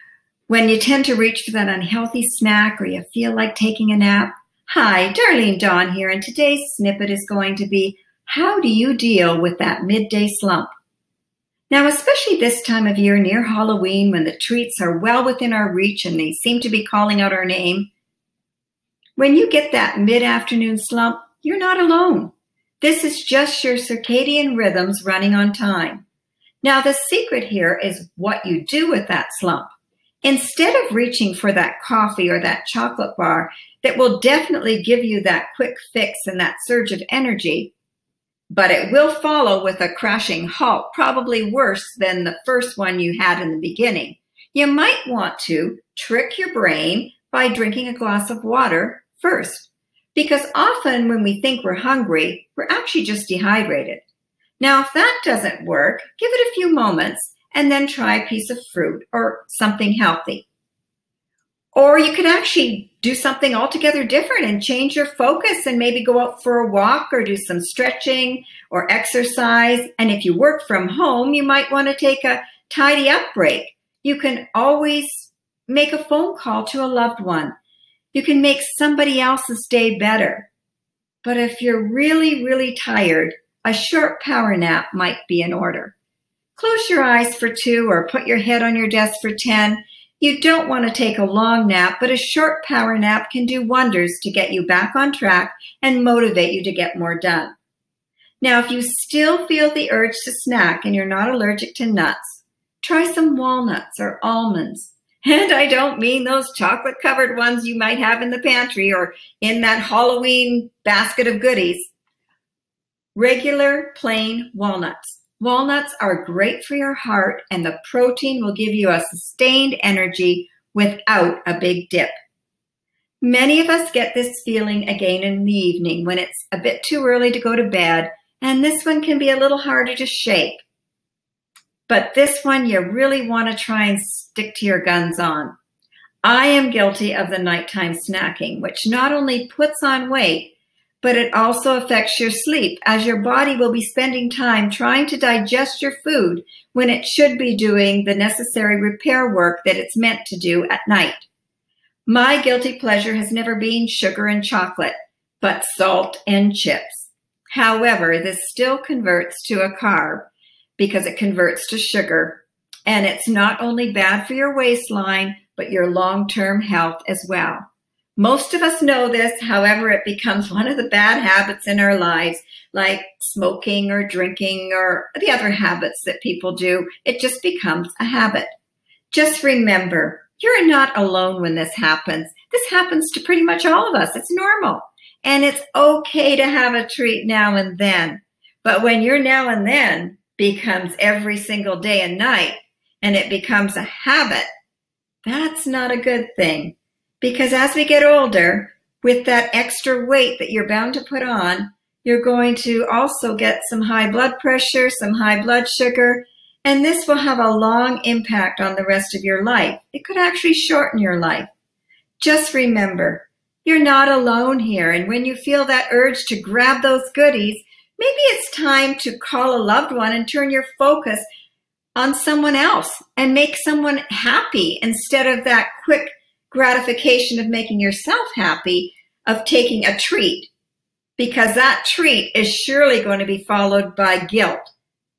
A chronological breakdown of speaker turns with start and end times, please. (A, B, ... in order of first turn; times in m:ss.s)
0:00.5-0:10.7 A
0:11.7-0:17.9 A
0:19.2-0:26.0 A
0:26.6-0:29.7 A
0:30.2-0:37.7 A
0:38.5-0:54.0 A
0:54.6-1:00.5 A
1:01.7-1:17.5 A
1:18.1-1:20.5 A
1:21.2-1:25.9 A
1:26.6-1:37.5 A
1:38.4-1:51.9 A
1:53.1-2:02.1 A
2:03.2-2:10.6 A
2:11.9-2:15.5 A
2:16.2-2:31.2 A
2:32.1-2:47.6 A
2:48.2-2:58.5 A
2:59.1-3:14.5 A
3:15.2-3:31.5 A
3:32.2-3:41.2 A
3:42.0-3:50.5 A
3:51.2-3:54.7 A